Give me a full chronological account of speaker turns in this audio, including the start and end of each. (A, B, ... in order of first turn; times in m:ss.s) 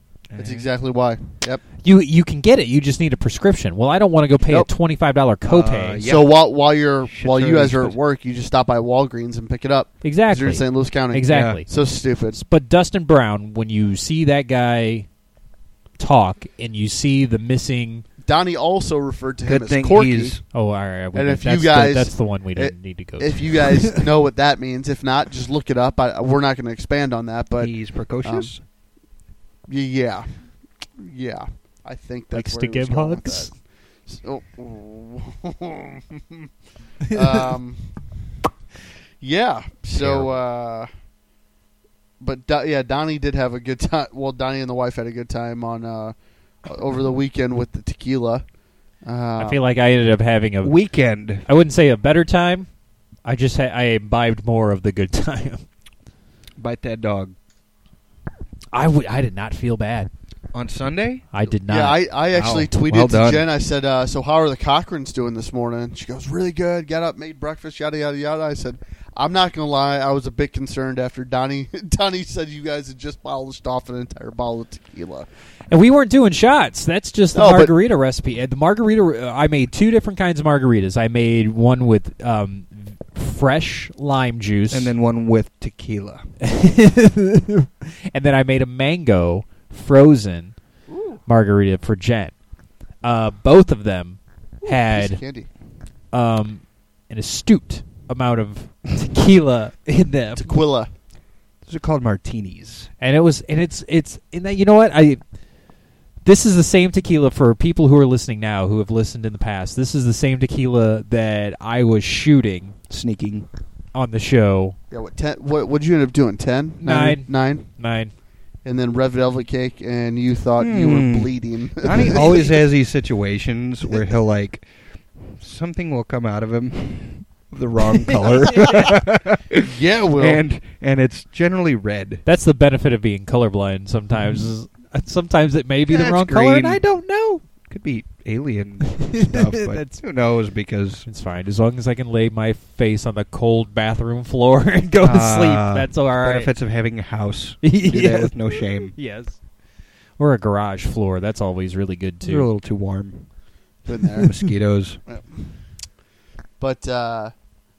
0:00.3-0:00.7 A
0:00.4-0:01.6 B
0:01.8-0:06.0 C
0:05.4-0:06.4 A
0:06.0-0:12.4 B
0:07.0-0:08.0 A
0:10.0-0:11.7 C
0:11.3-0:11.6 A
0:12.3-0:15.1 C
0:16.0-0:18.0 C
0:18.2-0:20.4 B
0:19.4-0:20.4 A
0:20.5-0:24.0 C
0:21.1-0:28.5 B
0:27.6-0:28.6 A
0:29.7-0:30.4 B
0:31.0-0:36.5 B
0:32.3-0:33.5 C
0:37.1-0:38.0 B
0:39.2-0:40.9 B
0:40.0-0:40.3 C
0:42.2-0:48.4 B
0:49.0-0:49.6 B
0:49.4-0:50.8 C
0:50.6-0:51.4 A
0:51.4-0:52.7 C
0:53.2-0:55.6 C
0:56.6-0:57.3 A
0:58.7-1:00.1 C
1:00.5-1:01.2 A
1:01.3-1:02.0 C
1:01.7-1:15.3 B
1:02.3-1:03.4 A
1:15.7-1:24.9 C
1:17.3-1:17.7 B
1:24.7-1:26.2 A
1:26.4-1:30.6 C
1:30.9-1:31.2 B
1:31.2-1:32.3 C
1:33.0-1:35.2 C
1:34.6-1:35.5 B
1:36.1-1:40.6 C
1:40.4-1:40.9 B
1:41.6-1:42.9 A
1:43.0-1:45.2 C
1:46.2-1:52.8 C
1:52.9-1:53.5 A
1:53.9-1:54.8 C
1:54.9-1:57.7 B
1:56.8-1:58.1 C
1:56.8-1:57.2 A
1:58.6-2:02.5 B
2:00.6-2:04.7 A
2:05.2-2:12.2 A
2:08.1-2:08.9 C
2:09.6-2:10.4 B
2:12.2-2:17.4 C
2:15.9-2:16.8 A
2:17.6-2:21.0 A
2:18.9-2:20.0 C
2:21.1-2:26.5 C
2:25.0-2:28.9 A
2:27.6-2:29.4 C
2:30.2-2:32.5 C
2:32.2-2:33.2 A
2:33.8-2:34.4 B
2:34.2-2:35.0 A
2:35.1-2:35.5 B
2:36.6-2:37.3 B